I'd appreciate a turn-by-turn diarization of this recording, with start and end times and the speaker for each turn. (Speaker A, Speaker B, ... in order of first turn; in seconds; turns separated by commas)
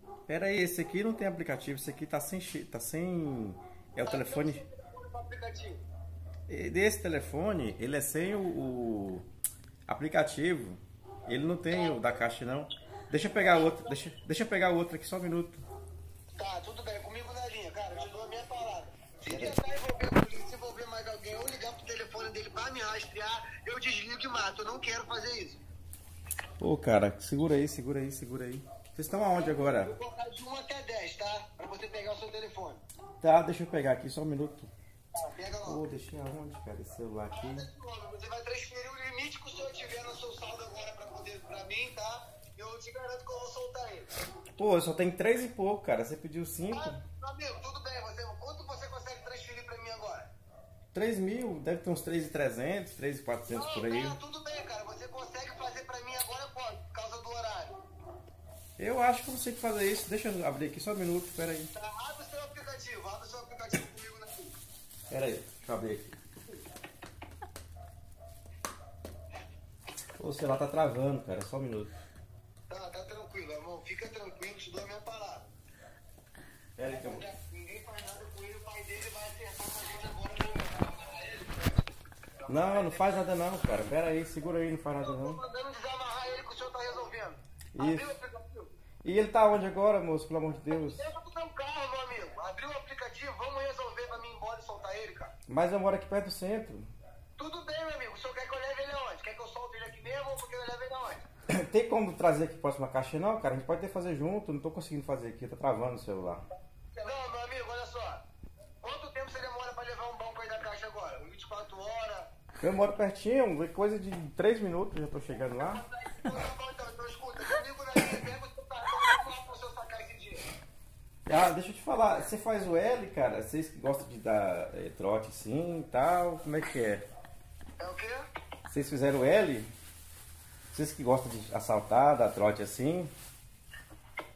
Speaker A: 0.3-4.6, Speaker B: 4.0-5.8, Speaker A: 6.5-9.2, Speaker A: 9.9-15.6, Speaker B: 11.7-12.2, Speaker B: 13.3-14.0, Speaker B: 16.4-25.6, Speaker A: 19.3-19.6, Speaker A: 26.6-29.9, Speaker B: 29.3-32.8, Speaker A: 33.2-34.7, Speaker B: 35.1-35.8, Speaker A: 35.6-37.7, Speaker B: 37.3-44.1, Speaker A: 44.6-47.0, Speaker B: 46.7-50.3, Speaker A: 50.9-54.2, Speaker B: 53.5-57.8, Speaker A: 58.8-61.7, Speaker B: 61.7-64.5, Speaker A: 65.1-66.1, Speaker A: 70.2-71.9, Speaker B: 72.7-75.5, Speaker A: 76.8-77.2, Speaker B: 76.9-81.7, Speaker B: 82.4-83.0, Speaker A: 82.5-85.4, Speaker B: 85.0-88.7, Speaker A: 87.7-88.1, Speaker A: 89.0-91.1, Speaker B: 90.7-95.3, Speaker A: 95.5-96.9, Speaker B: 97.4-101.2, Speaker A: 101.5-106.4, Speaker B: 106.9-108.2, Speaker B: 108.8-112.3, Speaker A: 112.6-115.8, Speaker B: 115.5-120.4, Speaker A: 121.3-127.0, Speaker B: 127.8-128.2, Speaker A: 128.7-129.7, Speaker A: 130.7-133.1